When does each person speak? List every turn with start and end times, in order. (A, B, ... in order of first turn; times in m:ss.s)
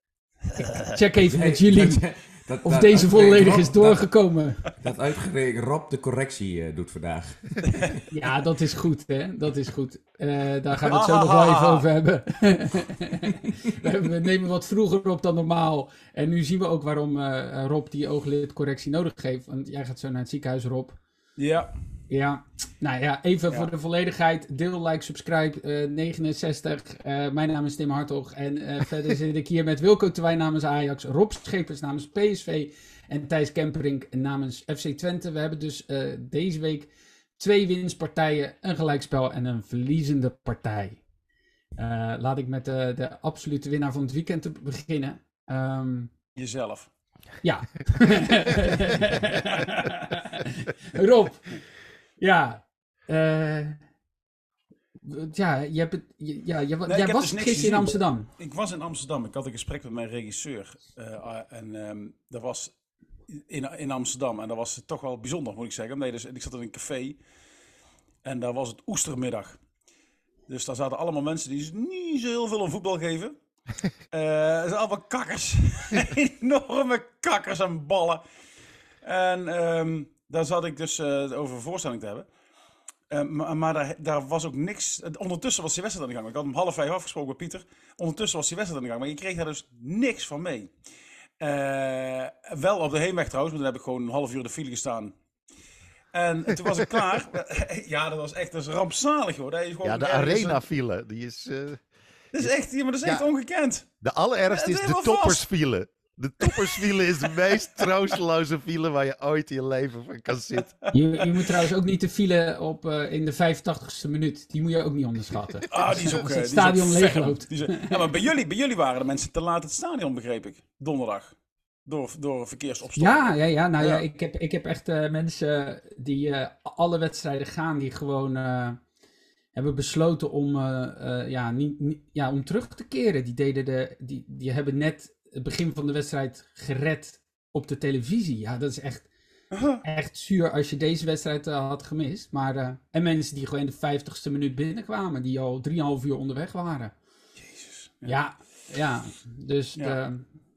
0:00.7-0:02.0 A
0:01.2-0:04.0 B
0:02.6-0:04.7 A
0:04.8-0:08.0 B
0:08.1-0:21.0 A
0:10.8-0:11.9 C
0:21.4-0:21.7 C
0:22.1-0:41.0 A
0:41.8-0:46.1 A
0:46.4-0:46.9 C
0:47.4-0:51.6 A
0:52.2-0:53.8 A
0:55.0-0:58.3 A
0:56.9-1:02.7 C
1:03.3-1:07.2 C
1:08.2-1:09.6 C
1:10.5-1:13.3 C
1:14.1-1:18.2 C
1:19.0-1:22.3 C
1:23.1-1:30.7 C
1:31.4-1:35.1 C
1:36.1-1:40.6 C
1:39.8-1:41.8 D
1:42.3-1:43.8 C
1:44.0-1:50.7 D
1:44.5-1:45.4 C
1:46.4-1:47.9 C
1:50.9-1:58.0 A
1:55.7-2:01.3 C
2:01.8-2:04.0 C
2:03.0-2:08.8 A
2:09.5-2:19.1 A
2:19.5-2:19.8 C
2:19.8-2:26.9 A
2:27.4-2:28.2 C
2:28.0-2:30.2 A